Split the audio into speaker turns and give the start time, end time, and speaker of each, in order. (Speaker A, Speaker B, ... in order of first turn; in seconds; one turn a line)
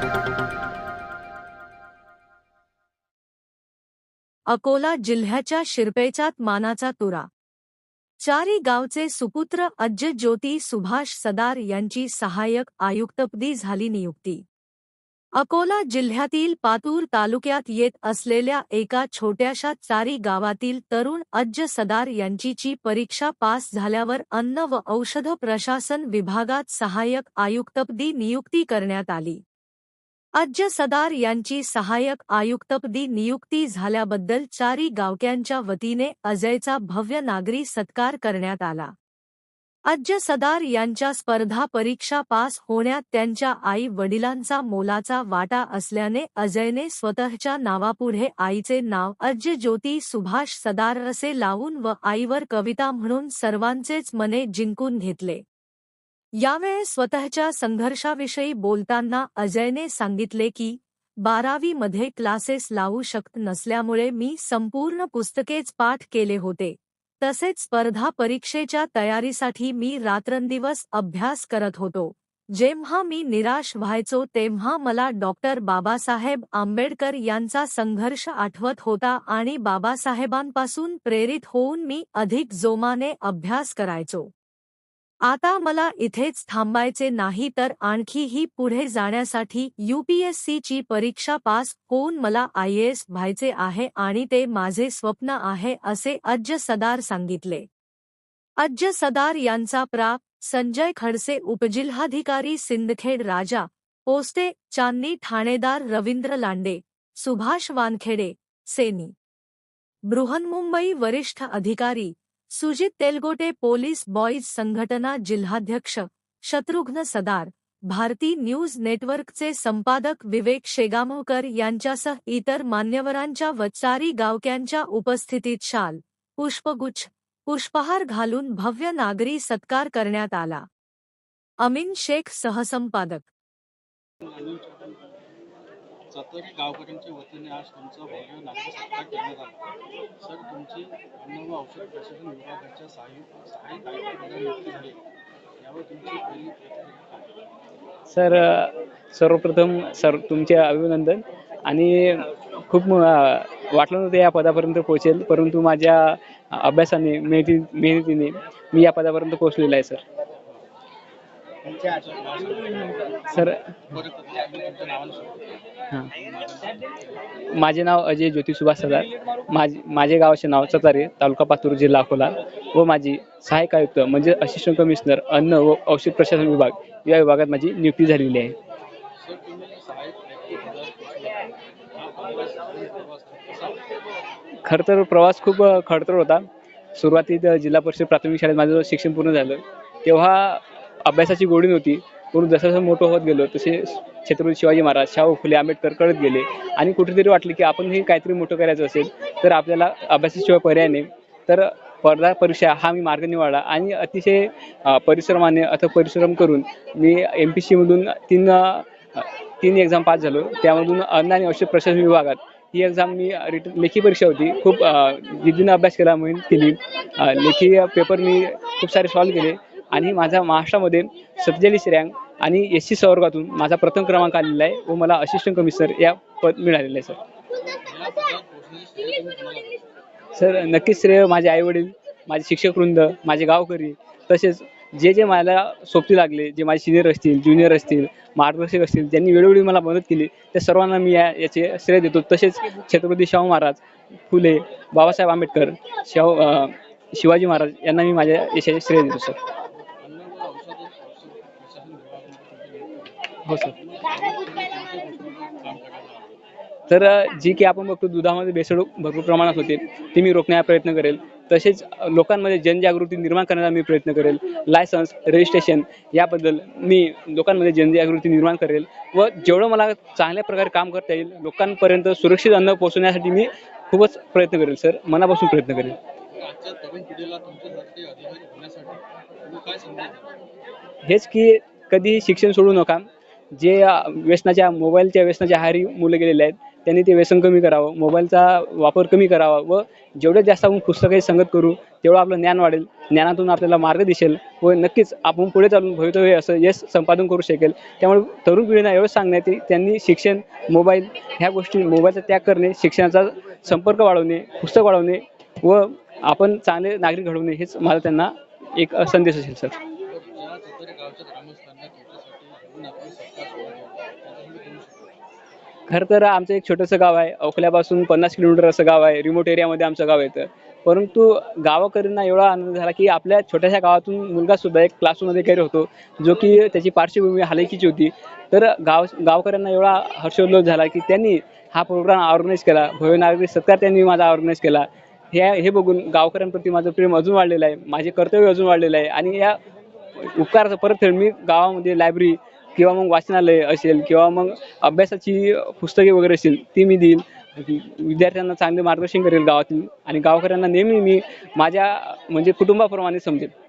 Speaker A: 4.5-7.3
Speaker A: 8.2-14.4
Speaker A: 15.4-29.4
Speaker A: 30.4-38.9
Speaker A: 39.9-55.4
Speaker A: 56.4-84.3
Speaker A: 85.2-97.7
Speaker A: 98.6-109.1
Speaker A: 110.1-130.7
Speaker A: 131.6-133.3
Speaker B: 134.2-135.0
Speaker B: 136.1-139.6
Speaker B: 140.2-145.0
Speaker B: 145.6-147.3
Speaker C: 148.1-160.0
Speaker B: 161.7-167.4
Speaker C: 167.5-178.6
Speaker B: 179.2-183.9
Speaker C: 184.7-186.4
Speaker C: 186.9-227.2
Speaker B: 227.6-229.9
Speaker C: 230.3-249.4
Speaker B: 249.7-256.4
Speaker C: 253.5-253.7
Speaker C: 256.9-276.0
Speaker B: 276.3-280.4
Speaker C: 281.1-309.8
Speaker B: 310.0-315.2
Speaker C: 315.9-339.6
Speaker C: 340.2-353.5